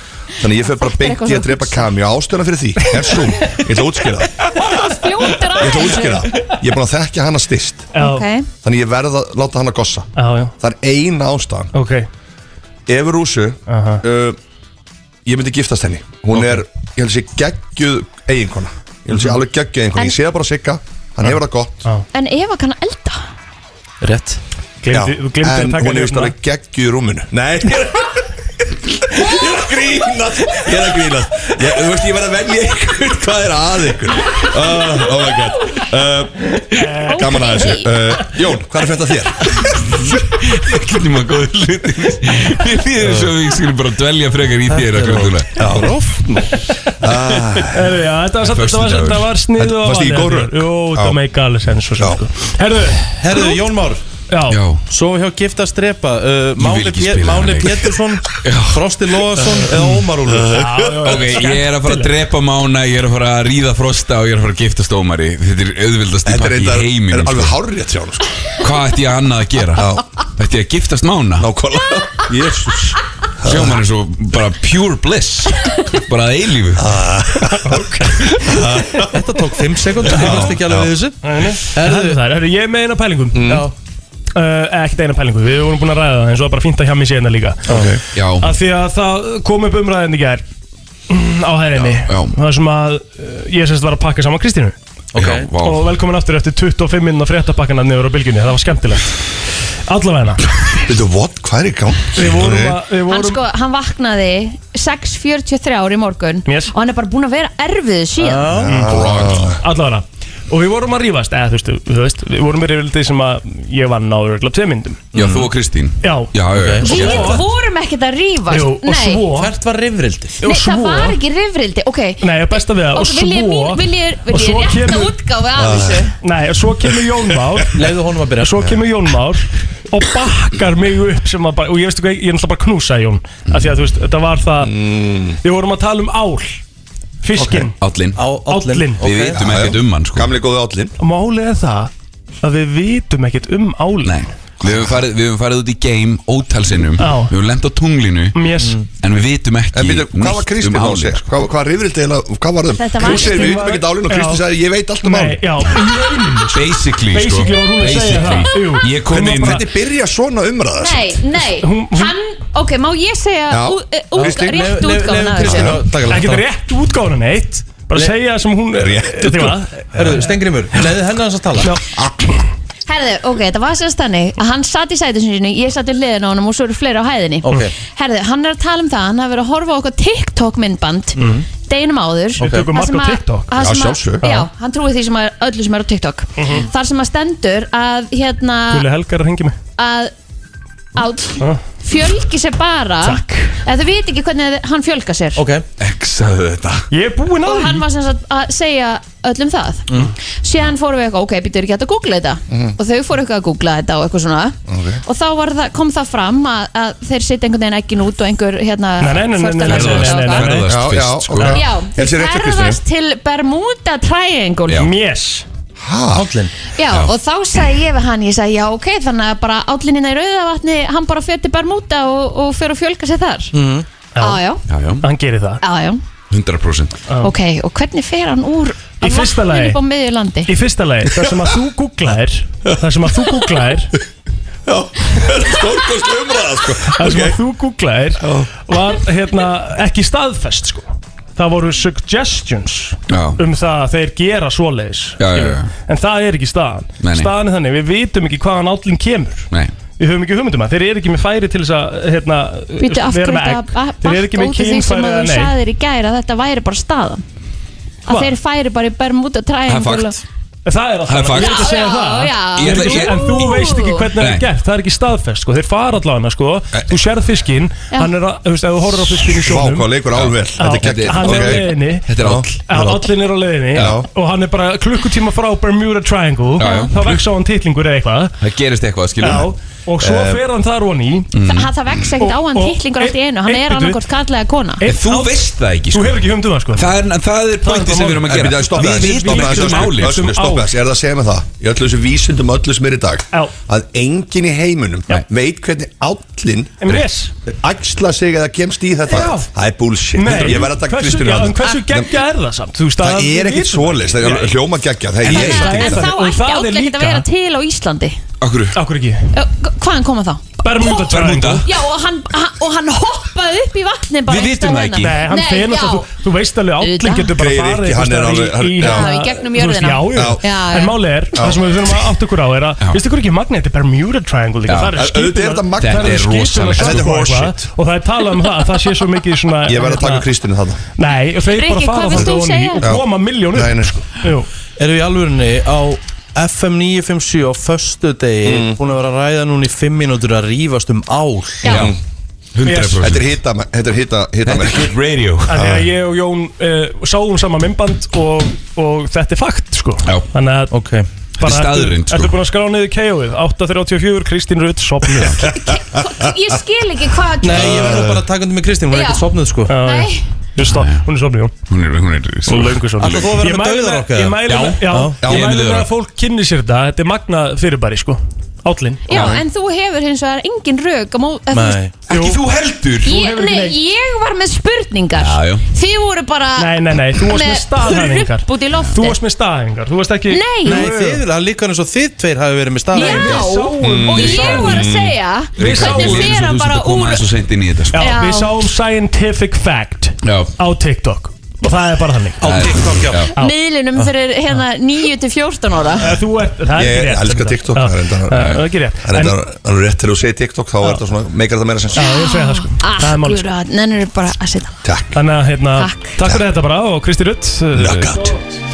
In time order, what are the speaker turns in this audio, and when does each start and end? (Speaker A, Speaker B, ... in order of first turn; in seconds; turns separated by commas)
Speaker A: 0.4-4.8, Speaker B: 0.7-1.9, Speaker B: 4.6-6.2, Speaker A: 5.5-7.9, Speaker C: 8.0-8.3, Speaker B: 8.0-8.5, Speaker A: 8.6-10.1, Speaker C: 10.2-10.5, Speaker A: 10.6-11.7, Speaker C: 11.7-12.1, Speaker A: 12.9-14.4, Speaker C: 13.7-14.0, Speaker A: 15.3-21.8, Speaker B: 22.1-23.2, Speaker D: 24.0-24.4, Speaker C: 24.8-26.3, Speaker A: 24.9-39.6, Speaker C: 36.8-37.3, Speaker B: 37.1-37.9, Speaker E: 40.1-45.7, Speaker D: 44.7-46.5, Speaker A: 45.6-46.4, Speaker A: 47.0-47.9, Speaker C: 47.6-53.1, Speaker E: 48.4-49.3, Speaker A: 49.6-51.2, Speaker D: 53.2-54.0, Speaker C: 54.3-54.6, Speaker E: 54.5-54.8, Speaker D: 54.9-60.5, Speaker E: 56.6-58.8, Speaker A: 60.3-61.1, Speaker C: 60.5-62.1, Speaker E: 61.0-67.6, Speaker A: 66.2-68.3, Speaker E: 68.6-71.5, Speaker A: 69.8-70.0, Speaker A: 71.4-72.9, Speaker E: 72.2-76.9, Speaker A: 73.4-73.8, Speaker A: 76.8-79.2, Speaker C: 77.5-78.5, Speaker D: 79.0-82.2, Speaker A: 80.1-80.9, Speaker C: 81.2-83.6, Speaker A: 83.3-83.7, Speaker D: 83.5-83.7, Speaker C: 84.3-87.8, Speaker A: 87.7-88.0, Speaker E: 88.1-88.5, Speaker C: 88.4-90.4, Speaker C: 91.1-94.8, Speaker E: 91.8-92.3, Speaker D: 95.1-95.5, Speaker E: 95.2-95.9, Speaker C: 95.6-99.2, Speaker C: 99.9-100.5, Speaker A: 100.8-102.8, Speaker C: 102.1-103.4, Speaker B: 103.1-108.5, Speaker C: 106.5-106.7, Speaker D: 108.2-108.9, Speaker A: 108.6-109.6, Speaker C: 108.7-109.0, Speaker E: 108.8-109.5, Speaker C: 109.6-115.0, Speaker D: 115.1-115.5, Speaker E: 115.1-117.4, Speaker C: 116.0-116.3, Speaker D: 116.5-117.2, Speaker B: 116.8-119.2, Speaker C: 116.8-117.4, Speaker C: 118.5-119.5, Speaker D: 119.3-120.5, Speaker C: 120.4-121.2, Speaker B: 120.4-126.2, Speaker C: 122.2-125.1, Speaker A: 125.6-126.1, Speaker C: 126.2-127.8, Speaker D: 127.7-128.8, Speaker C: 128.4-134.9, Speaker A: 134.6-135.4, Speaker C: 135.4-136.6, Speaker C: 137.2-137.7, Speaker A: 137.4-137.7, Speaker E: 137.8-138.2, Speaker D: 138.2-139.4, Speaker C: 138.5-139.0, Speaker E: 139.0-140.3, Speaker A: 139.3-140.9, Speaker C: 141.0-141.9, Speaker C: 142.4-144.2, Speaker E: 144.0-148.4, Speaker A: 144.7-145.0, Speaker C: 147.0-147.3, Speaker C: 148.3-148.8, Speaker D: 148.6-148.9, Speaker E: 149.0-151.2, Speaker A: 149.7-155.5, Speaker B: 152.7-153.6, Speaker C: 153.0-154.4, Speaker C: 155.0-159.7, Speaker E: 156.5-159.6, Speaker A: 159.3-161.3, Speaker B: 160.8-165.8, Speaker C: 161.6-162.1, Speaker A: 163.5-164.5, Speaker D: 164.2-166.4, Speaker A: 165.4-165.8, Speaker C: 166.1-170.1, Speaker A: 168.8-169.6, Speaker D: 169.9-171.8, Speaker C: 171.6-172.4, Speaker B: 172.9-188.8, Speaker D: 177.4-177.7, Speaker D: 181.2-181.5, Speaker C: 182.4-183.6, Speaker D: 182.4-182.7, Speaker A: 183.6-184.2, Speaker C: 184.2-184.5, Speaker C: 186.4-186.7, Speaker C: 188.7-189.6, Speaker B: 189.8-190.1, Speaker B: 190.9-195.4, Speaker C: 193.0-193.6, Speaker D: 195.4-195.7, Speaker E: 195.8-196.9, Speaker C: 196.9-197.8, Speaker B: 197.4-199.9, Speaker B: 200.4-210.5, Speaker A: 202.5-202.8, Speaker A: 204.7-205.0, Speaker C: 209.0-210.8, Speaker E: 209.7-211.6, Speaker A: 210.7-212.8, Speaker B: 211.5-214.9, Speaker C: 214.8-215.5, Speaker A: 215.8-216.3, Speaker D: 216.1-216.5, Speaker B: 216.7-223.5, Speaker D: 223.5-223.9, Speaker C: 224.2-224.4, Speaker B: 224.2-224.6, Speaker E: 224.7-225.1, Speaker C: 225.0-225.6, Speaker B: 225.6-226.0, Speaker E: 226.3-227.0, Speaker B: 227.2-230.5, Speaker C: 229.0-229.8, Speaker C: 230.5-233.9, Speaker A: 234.7-237.4, Speaker C: 236.9-255.5, Speaker A: 238.2-238.5, Speaker E: 243.1-243.4, Speaker E: 245.2-245.7, Speaker E: 247.0-247.3, Speaker B: 252.8-257.2, Speaker B: 258.1-260.2, Speaker C: 258.1-258.3, Speaker E: 259.7-260.2, Speaker C: 260.7-269.9, Speaker E: 261.1-261.8, Speaker B: 261.3-264.1, Speaker E: 262.6-264.5, Speaker A: 269.4-272.5, Speaker E: 270.1-273.0, Speaker C: 270.6-272.1, Speaker C: 272.7-278.4, Speaker A: 273.8-274.1, Speaker E: 276.6-277.2, Speaker B: 276.6-276.9, Speaker E: 278.4-279.5, Speaker C: 279.2-281.3, Speaker A: 280.0-280.4, Speaker E: 281.3-281.7, Speaker B: 281.4-284.8, Speaker C: 282.2-284.0, Speaker C: 284.8-286.9, Speaker E: 284.9-290.2, Speaker C: 287.6-290.7, Speaker A: 288.2-302.1, Speaker C: 296.8-297.3, Speaker C: 299.1-299.5, Speaker C: 300.1-304.6, Speaker A: 303.0-305.9, Speaker E: 305.2-306.0, Speaker C: 305.3-307.2, Speaker B: 305.3-308.2, Speaker E: 308.4-308.8, Speaker C: 308.8-309.3, Speaker B: 309.3-311.1, Speaker C: 310.6-311.7, Speaker E: 310.9-311.7, Speaker B: 311.6-316.1, Speaker E: 314.3-315.2, Speaker C: 315.0-330.3, Speaker B: 316.8-317.3, Speaker A: 317.3-319.1, Speaker B: 318.8-321.0, Speaker A: 320.1-320.4, Speaker A: 321.4-321.6, Speaker E: 324.7-325.0, Speaker A: 324.9-327.6, Speaker E: 325.8-327.3, Speaker A: 329.7-330.8, Speaker C: 330.9-334.5, Speaker B: 331.5-332.9, Speaker A: 332.8-334.0, Speaker D: 334.8-341.8, Speaker A: 338.4-338.8, Speaker B: 341.6-341.9, Speaker E: 341.7-341.9, Speaker A: 341.7-342.0, Speaker E: 342.6-343.4, Speaker C: 342.6-343.0, Speaker A: 342.9-344.9, Speaker E: 344.5-345.6, Speaker C: 345.5-350.7, Speaker A: 345.6-345.9, Speaker D: 350.7-351.1, Speaker C: 351.4-355.5, Speaker E: 351.4-352.4, Speaker B: 355.6-357.9, Speaker D: 357.4-359.8, Speaker A: 357.7-358.2, Speaker B: 358.9-359.2, Speaker C: 359.7-361.5, Speaker B: 359.8-360.2, Speaker E: 360.6-361.0, Speaker E: 361.7-363.4, Speaker C: 362.5-369.0, Speaker D: 363.0-365.2, Speaker E: 364.5-365.9, Speaker A: 365.2-365.5, Speaker B: 369.1-371.8, Speaker E: 369.1-369.4, Speaker D: 371.5-372.0, Speaker C: 372.1-372.4, Speaker E: 372.1-373.1, Speaker C: 373.0-373.8, Speaker B: 373.1-379.2, Speaker E: 375.1-375.6, Speaker C: 376.6-381.2, Speaker B: 380.3-380.9, Speaker D: 380.6-383.5, Speaker C: 382.9-384.9, Speaker B: 382.9-387.3, Speaker A: 383.8-385.2, Speaker E: 384.2-384.6, Speaker E: 385.6-388.1, Speaker C: 385.6-386.4, Speaker C: 387.9-393.6, Speaker B: 387.9-388.6, Speaker E: 390.2-390.5, Speaker D: 392.4-393.2, Speaker E: 392.4-393.3, Speaker B: 393.4-396.2, Speaker C: 396.0-399.4, Speaker A: 396.8-402.1, Speaker C: 401.9-403.5, Speaker B: 401.9-404.8, Speaker A: 404.8-405.2, Speaker C: 405.1-408.4, Speaker B: 405.8-406.2, Speaker A: 407.7-408.4